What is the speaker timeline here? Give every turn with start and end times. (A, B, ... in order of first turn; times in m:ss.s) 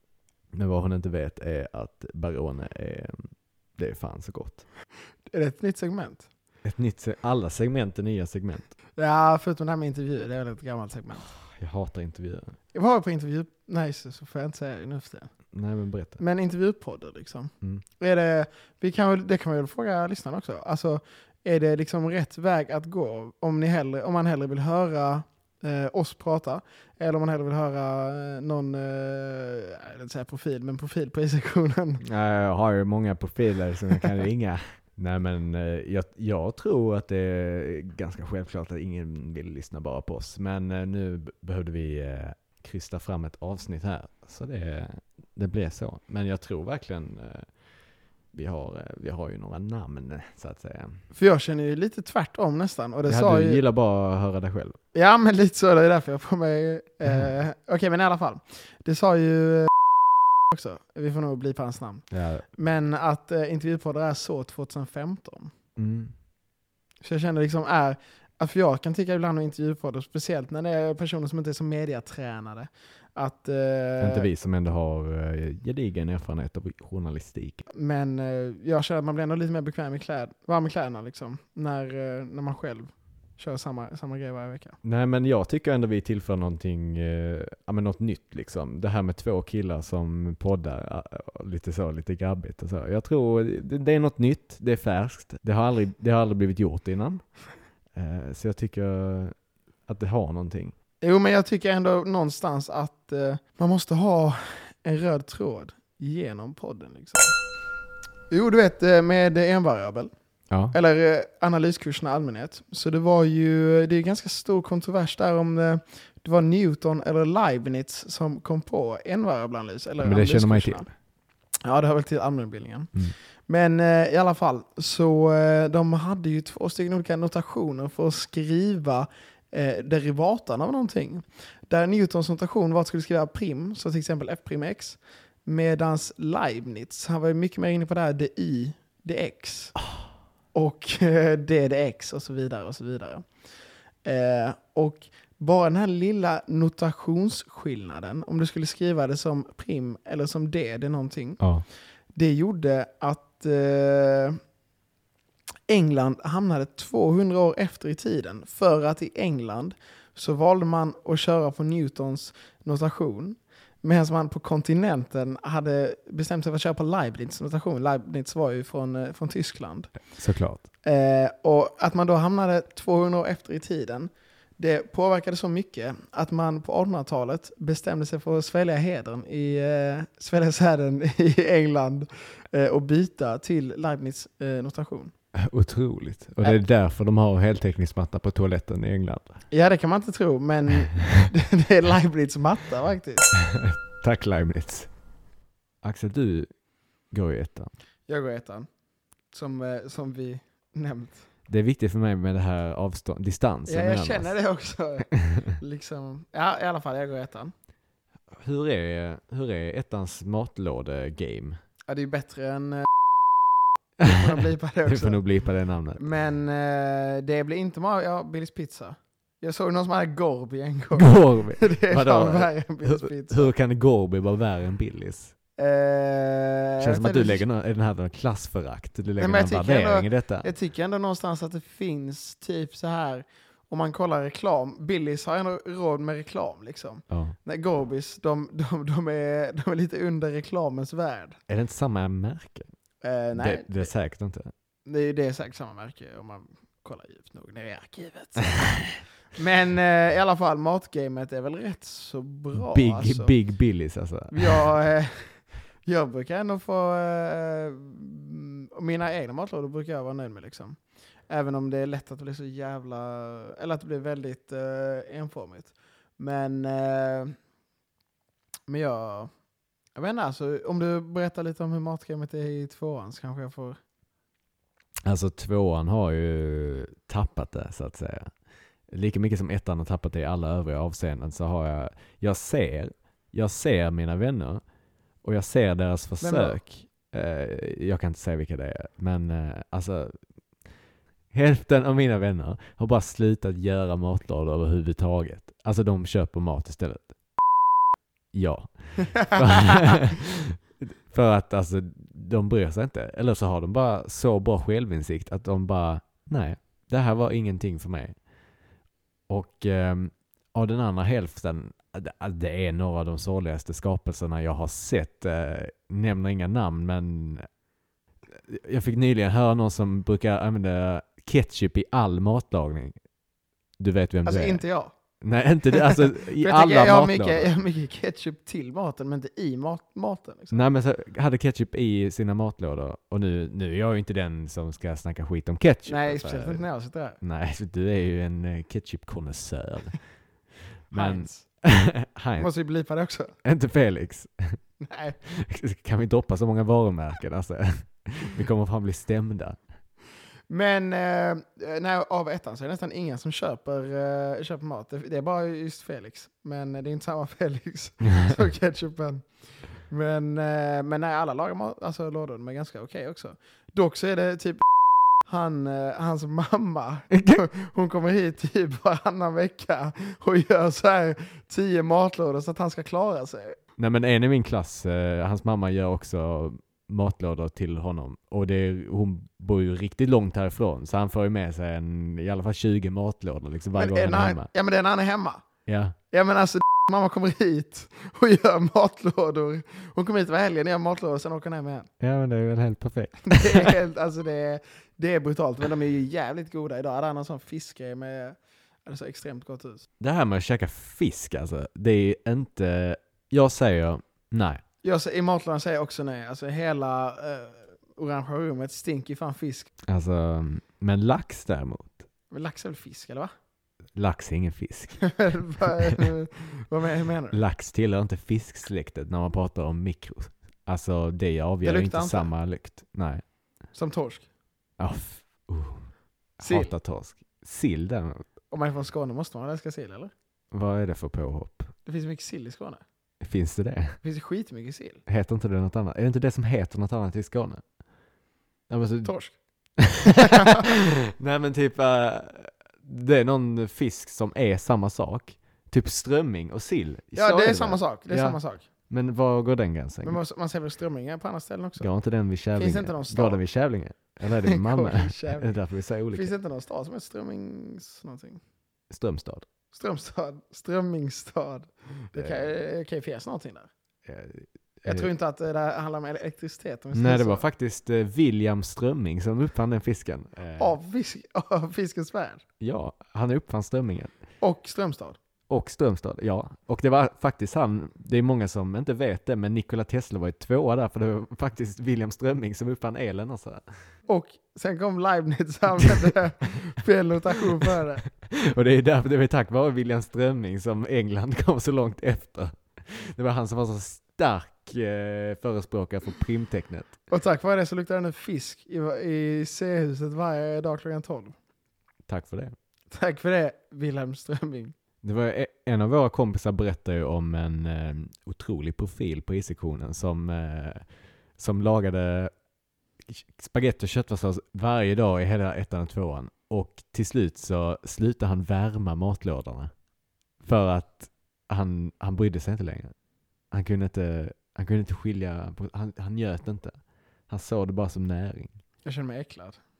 0:00.5-0:04.6 A
0:05.3-0:06.3 B
0:06.6-0:08.7 A
0:09.0-0:11.2 B
0:11.3-0:12.6 A
0:12.7-0:15.3 B
0:15.5-0:16.2 A
0:16.2-0:32.0 B
0:32.0-0:47.5 A
0:48.3-0:51.0 A
0:51.1-0:53.6 B
0:53.1-0:54.8 A
0:54.9-0:59.7 B
1:00.5-1:05.5 B
1:02.1-1:02.5 A
1:05.8-1:06.1 A
1:07.0-1:14.3 B
1:14.0-1:17.6 A
1:17.7-1:24.8 B
1:24.8-1:37.3 A
1:38.0-1:39.4 A
1:39.9-1:40.7 A
1:41.0-1:47.4 B
1:48.3-1:50.1 B
1:50.7-2:00.9 B
2:00.0-2:00.8 A
2:01.6-2:02.9 B
2:03.5-2:19.8 B
2:20.5-2:23.3 B
2:24.0-2:31.4 B
2:31.4-2:31.6 A
2:32.1-2:34.4 B
2:35.7-2:50.0 B
2:50.1-2:50.6 A
2:50.8-3:05.1 B
3:05.4-3:09.4 A
3:09.5-3:13.3 B
3:13.4-3:14.9 A
3:15.8-3:16.5 A
3:17.1-3:17.7 A
3:18.1-3:18.7 B
3:19.3-3:21.2 B
3:21.5-3:24.3 A
3:23.7-3:27.5 B
3:25.1-3:25.5 A
3:28.4-3:31.6 A
3:31.9-3:32.9 B
3:34.0-3:36.0 A
3:34.0-3:35.2 B
3:36.0-3:43.5 B
3:40.9-3:45.4 A
3:45.6-3:47.4 B
3:46.8-3:50.5 A
3:49.2-4:01.4 B
3:57.1-3:57.4 A
4:01.5-4:02.7 A
4:03.0-4:03.9 B
4:03.4-4:04.5 A
4:04.9-4:08.7 B
4:08.6-4:09.0 A
4:09.3-4:13.3 B
4:12.6-4:14.7 A
4:14.3-4:20.8 B
4:21.3-4:27.3 B
4:28.7-4:29.3 B
4:30.0-4:33.8 B
4:35.1-4:38.3 A
4:38.9-4:44.6 A
4:45.2-4:50.2 A
4:46.2-4:46.6 B
4:51.3-4:57.1 A
4:58.3-5:08.2 A
4:59.4-5:00.0 B
5:09.3-5:17.5 A
5:18.5-5:23.0 A
5:23.8-5:24.6 A
5:24.2-5:24.9 B
5:25.2-5:27.6 A
5:25.7-5:30.6 B
5:30.5-5:36.6 A
5:35.9-5:37.2 B
5:37.2-5:40.0 A
5:40.9-5:42.5 A
5:40.9-5:41.4 B
5:42.4-5:43.3 B
5:43.4-5:44.6 A
5:44.8-5:45.2 B
5:45.2-5:49.6 A
5:50.5-5:59.3 B
5:58.1-5:58.3 A
5:59.9-6:04.6 B
6:05.3-6:13.6 B
6:07.1-6:07.4 A
6:13.8-6:24.5 A
6:23.8-6:25.4 B
6:25.7-6:26.0 A
6:26.1-6:31.9 B
6:32.0-6:33.8 A
6:33.3-6:39.8 B
6:40.0-6:44.6 A
6:44.8-6:49.7 B
6:49.9-6:52.1 A
6:52.3-6:53.3 B
6:54.0-6:56.0 A
6:55.0-6:57.4 B
6:57.3-7:03.2 A
7:01.6-7:02.3 B
7:03.7-7:04.3 B
7:04.8-7:08.3 A
7:06.4-7:06.7 B
7:08.5-7:10.1 B
7:10.5-7:11.7 A
7:11.9-7:12.8 B
7:13.2-7:14.0 A
7:14.0-7:15.0 B
7:15.1-7:17.6 A
7:18.7-7:19.1 A
7:19.0-7:19.4 B
7:19.8-7:30.2 A
7:20.0-7:20.7 B
7:27.2-7:28.6 B
7:30.0-7:31.9 B
7:31.8-7:36.3 A
7:32.6-7:33.4 B
7:34.3-7:35.6 B
7:36.1-7:38.4 B
7:38.9-7:39.4 A
7:39.7-7:43.7 B
7:42.1-7:42.5 A
7:44.0-7:45.1 A
7:44.9-7:47.4 B
7:46.9-7:50.8 A
7:50.6-7:52.4 B
7:52.6-7:54.1 A
7:54.4-7:55.2 B
7:55.5-8:03.6 A
8:04.1-8:08.0 B
8:08.2-8:17.0 A
8:17.1-8:21.4 B
8:22.1-8:22.6 A
8:22.9-8:24.7 B
8:25.0-8:32.3 A
8:33.1-8:39.7 A
8:40.4-8:42.9 A
8:43.5-8:48.6 A
8:48.8-8:49.6 B